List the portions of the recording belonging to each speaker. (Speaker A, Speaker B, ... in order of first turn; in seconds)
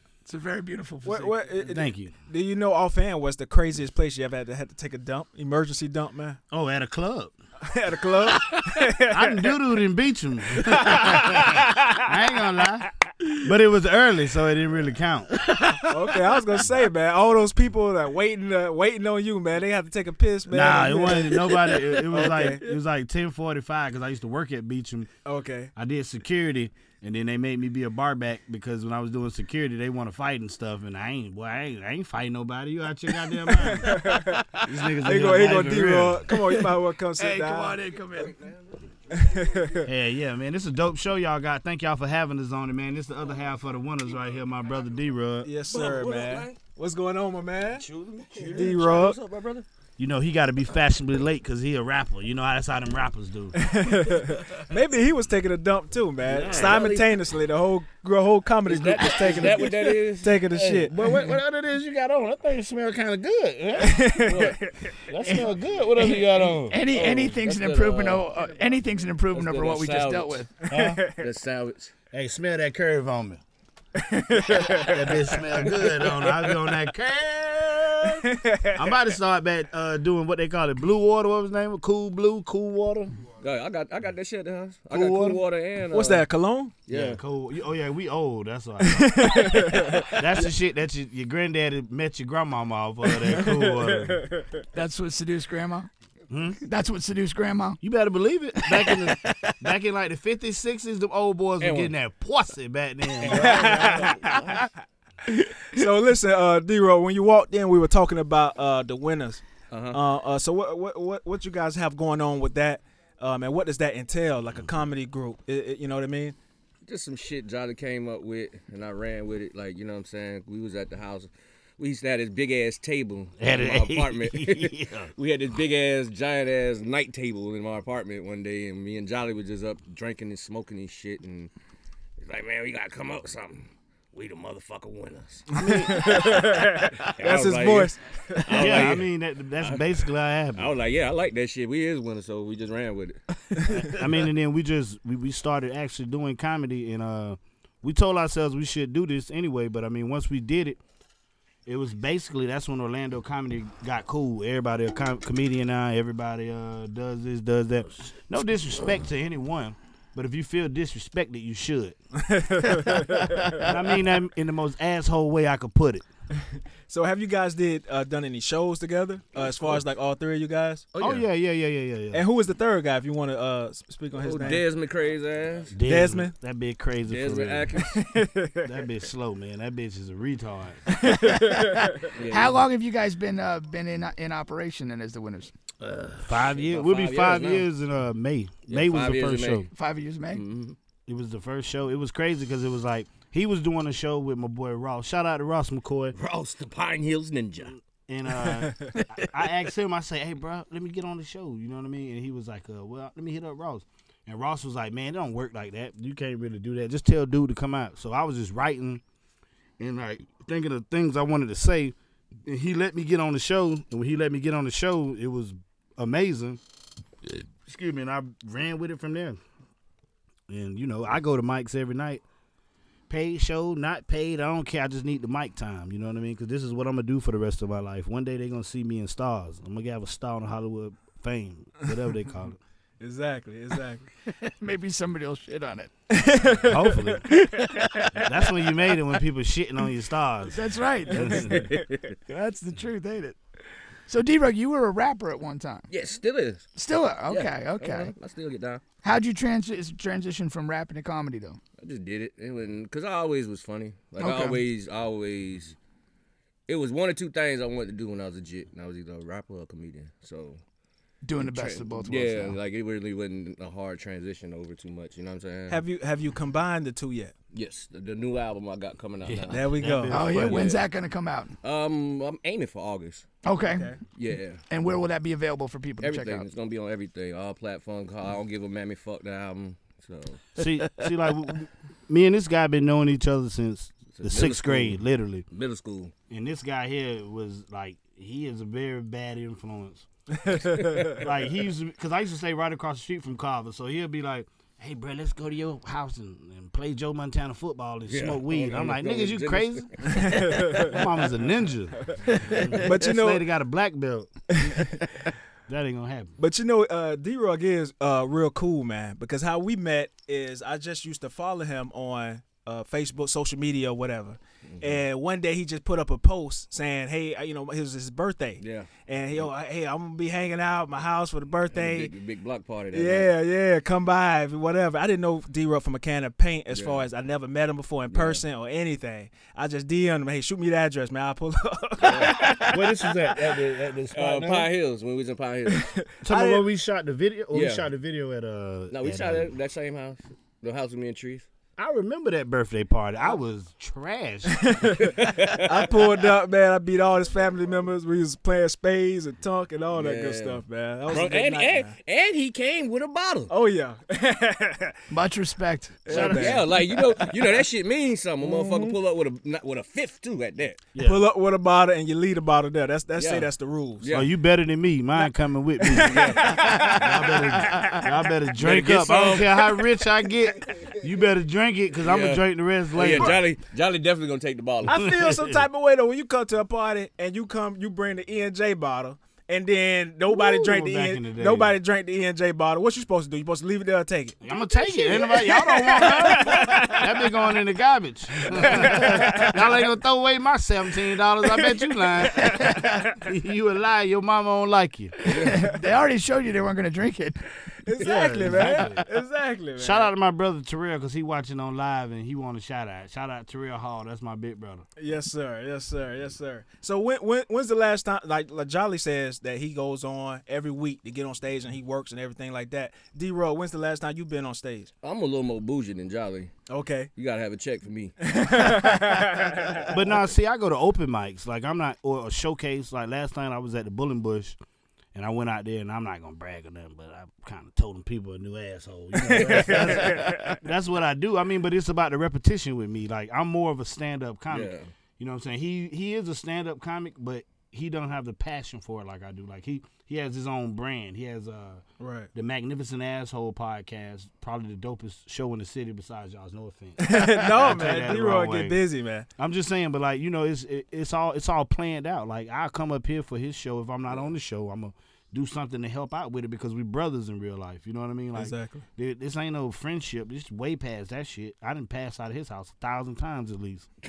Speaker A: 0.3-1.5, 8.4-8.7, 15.4-16.4, 21.5-21.8, 33.9-34.6, 36.3-38.4, 65.2-70.5, 94.7-95.9, 96.6-97.8, 98.8-99.5, 163.0-163.6, 181.1-185.5, 189.7-190.4, 234.3-235.9, 237.3-238.2, 240.5-241.5, 242.3-243.4, 244.1-245.9, 246.8-248.1, 249.0-251.6, 254.2-254.6, 261.2-262.6, 270.1-271.6, 273.4-274.0, 274.7-276.4, 302.3-302.6, 355.1-356.2, 392.5-392.9, 395.2-397.4
Speaker B: 1.0-6.4, 7.6-9.6, 10.7-12.0, 15.8-22.7, 25.2-25.7, 33.8-34.4, 35.0-37.8, 39.1-39.9, 45.5-47.9, 48.4-49.2, 53.6-60.9, 63.8-64.9, 70.7-71.1, 74.0-75.3, 78.2-78.9, 85.9-86.7, 88.8-90.2, 93.2-94.5, 103.3-104.3, 105.7-116.4, 135.6-138.8, 162.2-163.6, 166.9-170.9, 172.1-174.7, 175.9-176.3, 177.9-178.7, 181.0-181.9, 233.0-234.1, 236.1-237.2, 265.7-267.3, 269.5-270.5, 273.6-274.0, 290.4-291.1, 300.2-300.9, 302.8-303.4, 306.4-322.1, 322.9-333.1, 335.7-336.7, 344.6-345.1, 345.6-351.9, 353.5-355.0, 356.1-356.9, 361.0-364.1, 365.9-367.2, 373.0-373.4, 374.9-384.4, 385.0-387.1, 388.5-389.7, 397.9-400.1, 405.0-414.9, 416.7-417.1, 418.2-419.9, 429.3-430.6, 442.0-442.3, 447.0-449.3, 458.4-458.8
Speaker C: 1.6-2.1, 6.5-7.3, 9.0-15.4, 20.5-25.1, 25.8-34.0, 34.6-36.3, 39.9-45.5, 50.0-53.6, 60.5-64.2, 65.1-66.8, 70.7-71.2, 72.1-73.4, 74.6-83.3, 84.9-85.4, 86.9-94.3, 96.3-96.6, 97.8-104.1, 123.4-125.1, 135.5-136.5, 138.5-140.7, 143.7-150.8, 151.7-162.0, 163.4-166.0, 171.0-172.2, 175.7-177.9, 178.6-180.8, 186.2-189.7, 191.1-196.2, 198.0-209.0, 209.8-216.6, 217.6-219.4, 220.5-222.2, 223.1-232.6, 236.6-237.3, 238.1-241.8, 269.2-270.6, 280.6-285.4, 286.3-305.1, 305.7-306.3, 332.5-334.7, 336.2-339.5, 341.8-344.9, 356.1-356.7, 360.9-361.2, 364.1-373.4, 374.9-375.6, 380.3-381.7, 384.4-395.2, 398.0-399.1, 399.8-404.9, 419.9-424.6, 425.1-441.8, 442.3-448.8, 449.4-463.9
Speaker D: 38.2-38.6, 45.6-46.6, 47.7-49.7, 56.2-57.2, 58.7-60.5, 64.2-64.7, 65.9-68.3, 69.3-70.5, 71.1-71.9, 75.8-76.5, 83.4-86.3, 86.9-87.2, 101.6-102.0, 103.2-104.7, 109.7-110.0, 116.9-131.5, 132.2-135.5, 137.0-139.9, 140.5-143.2, 169.4-169.8, 170.9-171.3, 174.2-175.8, 177.0-178.0, 182.1-182.6, 185.8-187.7, 188.7-189.7, 190.3-190.8, 196.1-197.8, 241.5-242.1, 245.9-246.7, 247.3-248.8, 251.8-255.8, 256.7-260.6, 261.4-265.8, 267.5-270.8, 271.6-273.3, 274.1-274.6, 276.0-280.5, 284.1-286.1, 290.6-291.2, 298.1-300.9, 314.6-315.0, 318.6-319.5, 321.7-323.3, 326.7-327.0, 328.1-328.4, 332.0-332.7, 334.1-335.9, 337.5-337.9, 338.9-341.5, 345.0-345.8, 349.9-353.5, 356.1-360.8, 363.2-364.3, 366.0-367.4, 368.6-369.8, 372.0-375.0, 395.3-395.7, 415.0-416.5, 417.1-418.1, 429.3-430.2, 434.5-434.9